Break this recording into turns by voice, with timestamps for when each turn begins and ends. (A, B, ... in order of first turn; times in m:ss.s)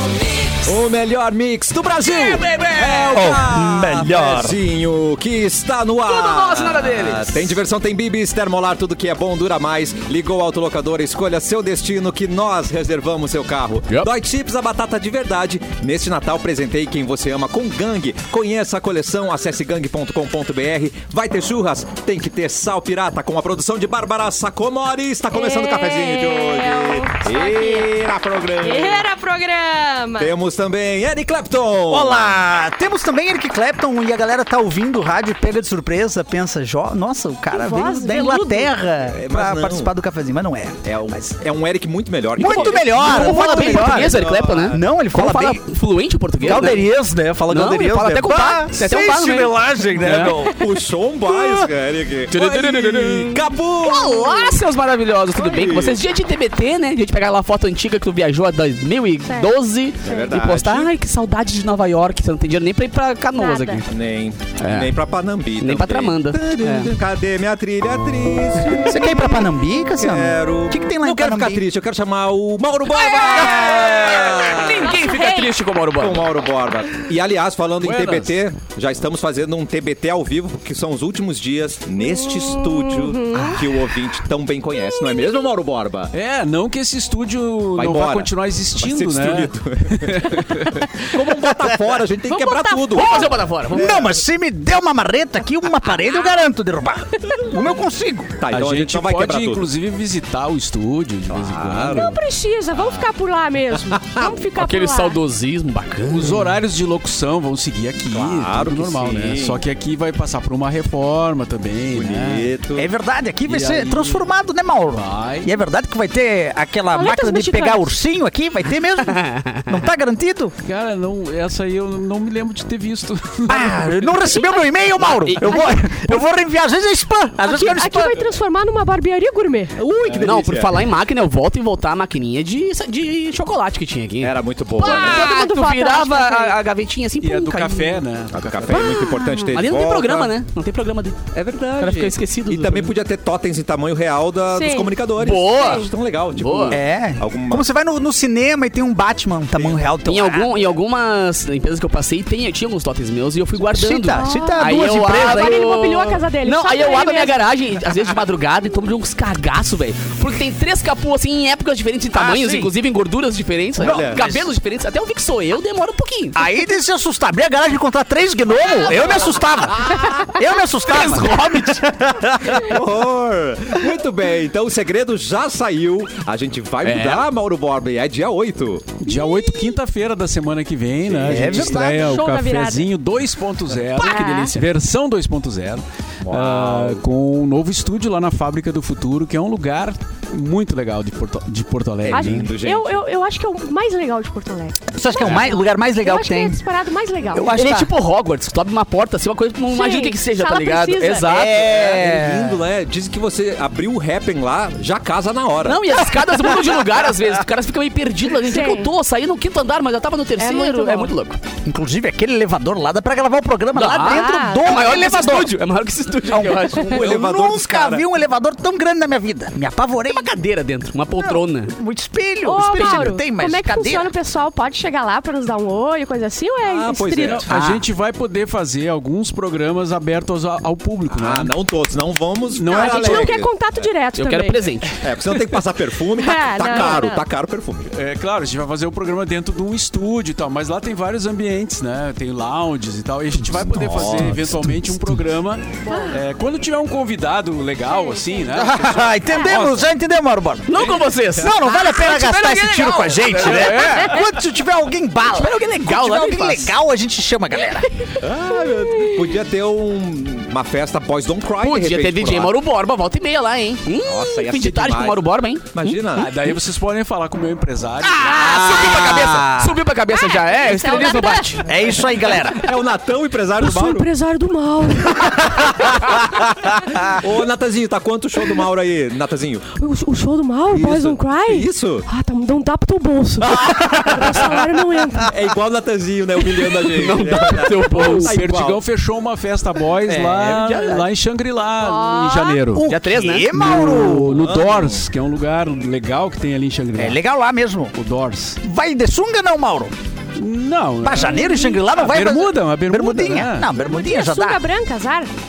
0:00.6-0:29.1 A
0:02.0-0:03.4 B
0:03.1-0:04.6 C
0:06.0-0:07.6 B
0:25.3-0:27.9 D
0:28.6-0:30.3 D
0:30.2-0:32.3 A
0:31.9-0:41.2 C
0:37.5-0:38.7 D
0:39.1-0:39.9 A
0:40.8-0:44.8 A
0:42.4-0:45.6 C
0:42.9-0:46.8 B
0:46.4-0:50.8 C
0:47.5-0:49.5 B
0:50.0-0:54.4 A
0:50.0-0:50.3 E
0:51.3-0:51.7 C
0:52.3-1:03.8 B
0:53.9-0:54.6 D
0:55.4-0:56.0 A
0:59.3-0:59.5 D
1:00.0-1:00.9 A
1:00.0-1:00.3 D
1:03.4-1:03.8 D
1:03.9-1:15.0 A
1:04.6-1:04.9 B
1:05.6-1:06.9 B
1:08.8-1:11.6 C
1:12.9-1:15.5 D
1:13.4-1:16.3 B
1:16.0-1:26.1 A
1:17.8-1:18.4 E
1:22.1-1:23.8 D
1:24.8-1:25.4 D
1:26.1-1:30.9 E
1:27.7-1:34.1 A
1:32.2-1:33.4 D
1:32.9-1:34.1 B
1:33.7-1:38.4 C
1:36.0-1:36.4 D
1:38.4-1:39.7 A
1:38.5-1:42.2 E
1:41.3-1:42.2 A
1:41.9-1:45.2 D
1:43.9-1:44.4 A
1:44.6-1:46.4 B
1:46.1-1:52.5 E
1:48.1-1:49.6 A
1:51.9-1:52.9 A
1:52.7-2:00.6 C
1:53.4-1:54.2 E
1:55.0-1:55.5 E
1:56.9-1:57.9 D
1:59.0-1:59.7 B
2:00.6-2:04.0 E
2:03.5-2:08.2 C
2:04.3-2:04.6 D
2:05.0-2:06.0 B
2:05.5-2:05.8 D
2:07.4-2:09.8 D
2:09.8-2:18.0 B
2:10.0-2:10.7 E
2:10.2-2:10.9 A
2:14.2-2:15.3 A
2:14.8-2:16.6 D
2:17.2-2:18.9 E
2:18.3-2:20.3 A
2:18.7-2:19.2 D
2:18.7-2:21.2 B
2:21.3-2:27.6 A
2:21.8-2:23.0 B
2:24.5-2:25.9 D
2:25.2-2:26.8 B
2:26.7-2:30.7 C
2:30.0-2:46.4 B
2:33.6-2:35.6 C
2:34.1-2:37.4 D
2:42.1-2:42.7 C
2:43.8-2:44.4 C
2:43.8-2:44.4 A
2:46.4-2:52.8 C
2:49.7-2:50.5 A
2:50.7-2:51.8 B
2:52.6-2:59.0 A
2:56.8-2:57.3 B
2:59.0-3:12.5 E
3:01.0-3:01.8 A
3:01.2-3:02.2 C
3:01.8-3:02.9 D
3:04.0-3:04.6 D
3:06.2-3:07.0 A
3:12.1-3:13.0 A
3:12.1-3:17.5 D
3:14.9-3:16.6 C
3:15.2-3:15.5 A
3:17.3-3:17.9 C
3:17.5-3:22.0 B
3:19.7-3:21.3 D
3:21.2-3:22.6 C
3:21.4-3:26.0 A
3:25.6-3:31.4 B
3:28.4-3:28.9 D
3:30.4-3:31.1 D
3:31.6-3:35.6 C
3:33.8-3:37.1 B
3:34.0-3:34.9 D
3:36.3-3:40.3 C
3:36.8-3:38.1 A
3:40.1-3:41.8 B
3:41.2-3:44.1 C
3:42.4-3:47.5 D
3:46.6-3:47.6 A
3:47.2-3:51.5 E
3:47.5-3:47.9 C
3:51.1-3:53.9 A
3:52.5-3:53.4 E
3:52.7-3:54.8 D
3:54.2-3:55.0 B
3:55.0-3:57.9 A
3:56.1-3:57.2 D
3:57.9-4:09.9 E
4:03.5-4:04.6 A
4:05.9-4:06.2 D
4:07.9-4:08.4 D
4:08.5-4:10.8 C
4:10.7-4:14.2 B
4:11.3-4:17.9 C
4:13.7-4:14.2 D
4:15.3-4:16.8 B
4:17.7-4:18.2 D
4:18.2-4:22.6 A
4:21.6-4:25.9 B
4:24.0-4:26.3 A
4:26.2-4:28.5 E
4:28.1-4:31.7 B
4:28.2-4:28.8 D
4:28.5-4:29.8 C
4:30.1-4:32.7 D
4:31.6-4:32.7 C
4:32.5-4:34.1 A
4:33.6-4:36.2 D
4:35.1-4:39.7 A
4:39.8-4:45.3 D
4:40.7-4:42.1 A
4:43.4-4:44.6 A
4:45.2-4:48.8 A
4:46.8-4:48.4 B
4:47.3-4:52.9 E
4:50.1-4:51.1 B
4:51.8-4:52.6 D
4:52.7-4:54.4 C
4:52.8-4:53.6 B
4:53.5-4:57.2 E
4:54.3-4:55.1 A
4:57.0-4:57.9 C
4:57.9-4:58.6 E
4:58.6-4:59.9 C
5:00.4-5:03.7 E
5:01.0-5:04.6 C
5:03.8-5:05.3 D